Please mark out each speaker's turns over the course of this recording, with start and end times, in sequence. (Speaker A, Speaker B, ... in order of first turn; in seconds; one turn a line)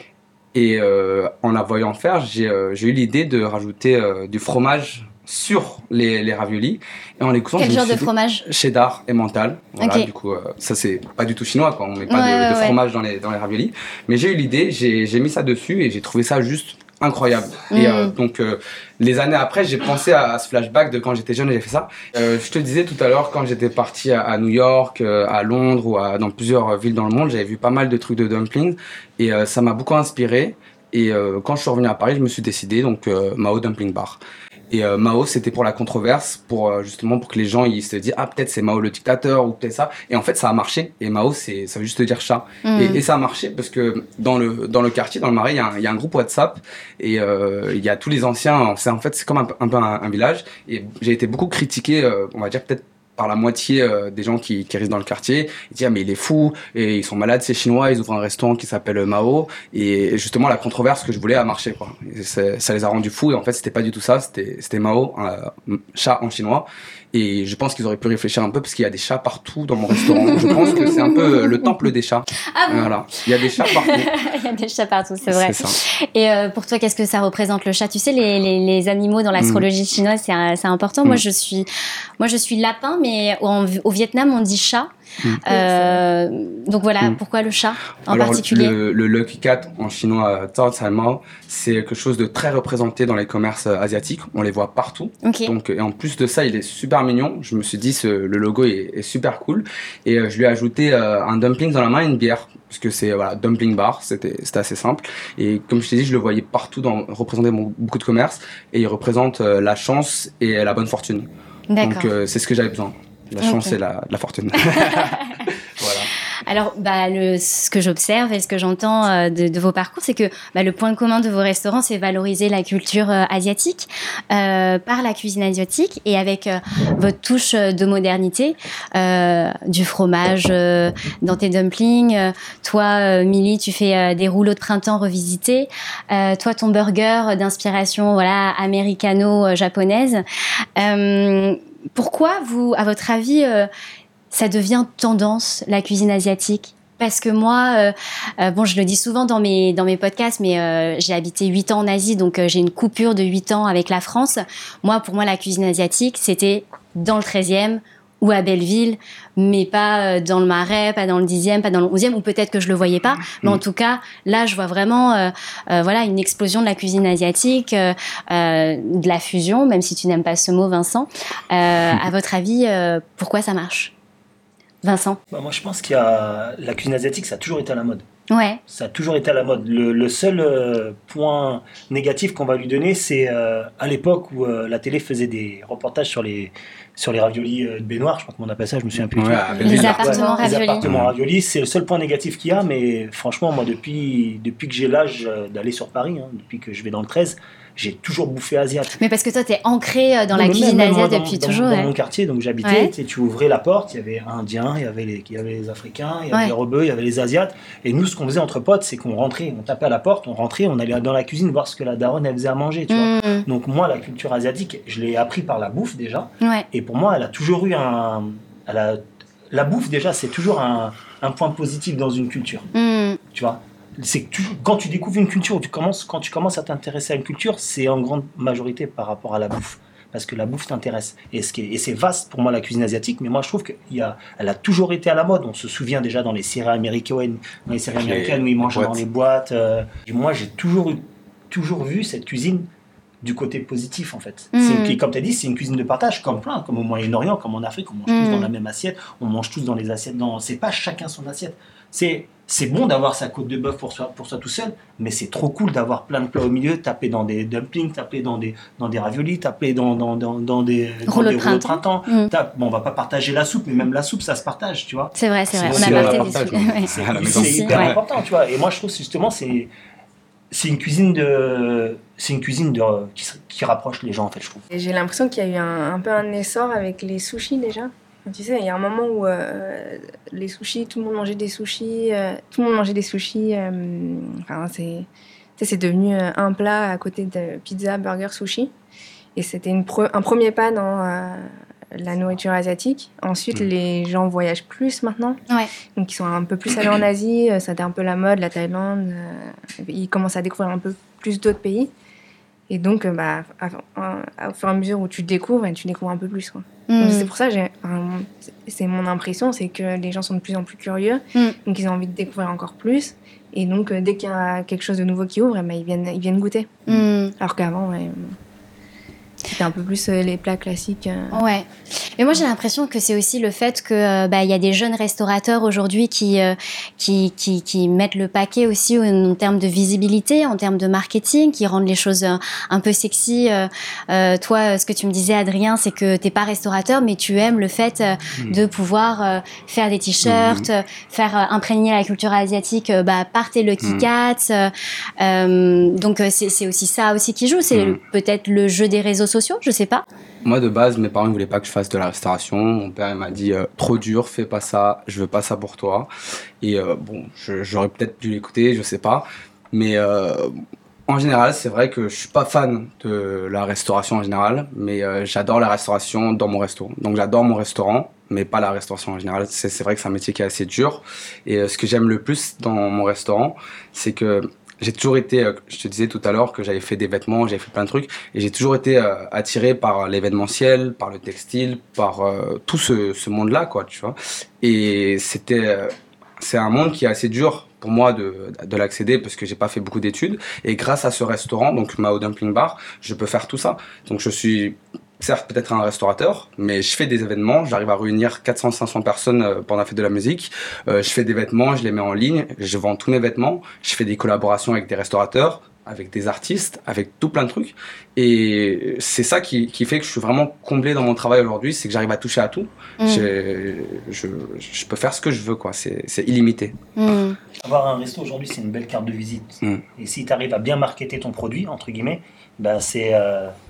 Speaker A: 0.5-74.1
Speaker B: 7.6-8.4
Speaker B: 9.8-10.1
Speaker B: 12.1-12.8
Speaker B: 17.7-18.1
Speaker B: 42.6-43.0
Speaker B: 70.1-71.7
Speaker B: 72.5-72.9
Speaker B: 73.5-81.7
Speaker A: 75.3-75.8
Speaker A: 79.4-79.7
Speaker B: 82.2-84.9
Speaker B: 85.4-88.7
Speaker C: 85.5-86.0
Speaker A: 88.1-111.3
Speaker B: 95.2-95.5
Speaker B: 111.7-112.1
Speaker A: 111.8-116.1
Speaker B: 113.4-113.7
Speaker B: 114.7-115.5
Speaker B: 116.4-140.2
Speaker B: 140.8-143.7
Speaker B: 144.3-173.9
Speaker B: 174.8-175.2
Speaker D: 175.3-178.1
Speaker B: 178.3-178.6
Speaker D: 178.7-199.0
Speaker A: 189.1-190.1
Speaker B: 189.6-190.8
Speaker C: 190.1-190.5
Speaker A: 190.8-191.1
Speaker B: 199.0-201.9
Speaker D: 200.3-222.7
Speaker B: 202.6-202.9
Speaker B: 212.9-213.4
Speaker B: 222.7-223.2
Speaker D: 223.3-242.7
Speaker A: 237.9-239.0
Speaker D: 243.2-269.7
Speaker B: 244.5-245.0
Speaker B: 248.1-248.5
Speaker B: 261.1-262.3
Speaker B: 265.2-267.9
Speaker A: 265.6-268.0
Speaker D: 270.5-274.6
Speaker C: 274.7-288.7
Speaker C: 289.4-295.4
Speaker C: 295.9-301.9
Speaker C: 302.7-316.8
Speaker B: 306.9-307.3
Speaker B: 316.9-317.3
Speaker C: 317.4-318.4
Speaker C: 319.5-321.4
Speaker B: 321.3-350.1
Speaker A: 340.2-340.7
Speaker A: 343.8-344.1
Speaker A: 350.4-356.1
Speaker A: 356.6-416.8
Speaker B: 413.0-413.3
Speaker B: 416.9-417.4
Speaker D: 417.6-423.6